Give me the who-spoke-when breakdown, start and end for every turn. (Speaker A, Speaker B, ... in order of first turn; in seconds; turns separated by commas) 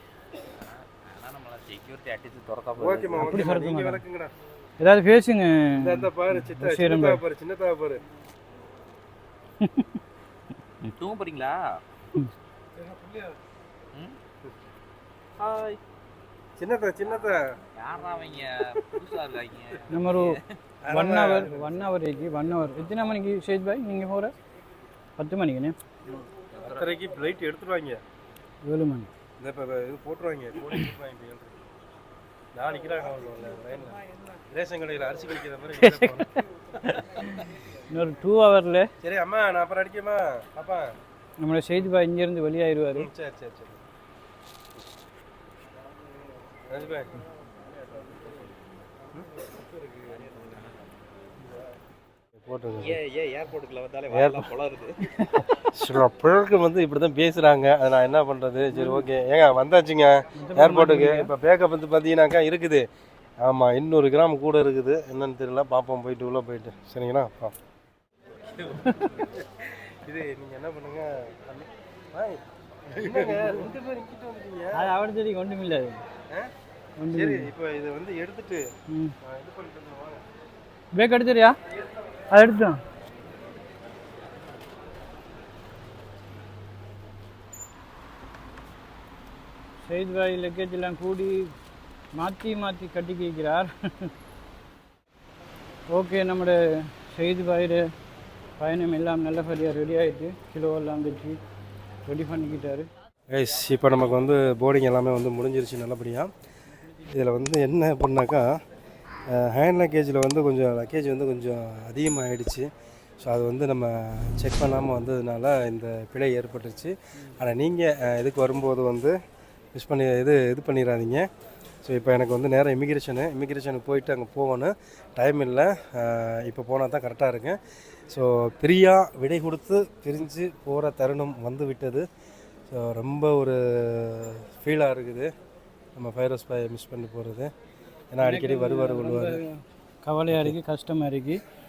Speaker A: 0.5-3.3, Speaker B: 2.8-4.3, Speaker C: 3.1-4.0, Speaker C: 4.8-7.2, Speaker B: 5.8-8.0, Speaker C: 9.6-9.9, Speaker A: 10.8-11.8, Speaker B: 12.9-13.2, Speaker A: 15.4-15.8, Speaker B: 16.6-17.5, Speaker A: 17.7-20.6, Speaker C: 19.9-20.4, Speaker B: 20.8-21.8, Speaker C: 20.9-24.3, Speaker C: 25.2-25.8, Speaker B: 26.1-28.0, Speaker A: 26.6-26.8, Speaker C: 28.6-29.1, Speaker B: 29.4-31.6, Speaker B: 32.5-36.3, Speaker C: 35.8-36.3, Speaker C: 36.8-38.9, Speaker B: 39.0-40.9, Speaker C: 41.4-43.1, Speaker B: 42.9-43.8, Speaker B: 46.7-47.1, Speaker A: 47.6-48.5, Speaker A: 49.5-51.0, Speaker B: 52.4-53.0, Speaker A: 52.8-55.2, Speaker B: 54.1-54.5, Speaker B: 55.7-62.9, Speaker C: 58.7-59.0, Speaker C: 60.4-61.3, Speaker B: 63.4-67.5, Speaker C: 68.6-69.1, Speaker B: 68.7-74.9, Speaker C: 72.9-73.6, Speaker C: 74.7-76.0, Speaker C: 77.0-77.5, Speaker B: 77.1-78.6, Speaker C: 78.9-79.2, Speaker B: 79.2-80.2, Speaker C: 80.9-81.6, Speaker C: 82.3-82.8, Speaker C: 89.8-91.5, Speaker C: 92.1-94.1, Speaker C: 95.9-97.9, Speaker C: 98.6-101.4, Speaker C: 102.0-102.9, Speaker B: 103.3-106.3, Speaker B: 107.0-108.5, Speaker B: 109.3-112.7, Speaker B: 113.2-119.2, Speaker B: 119.7-121.3, Speaker B: 121.8-132.1, Speaker B: 132.7-135.3, Speaker B: 136.0-137.5, Speaker B: 138.1-139.4, Speaker C: 138.2-141.4, Speaker B: 140.3-140.6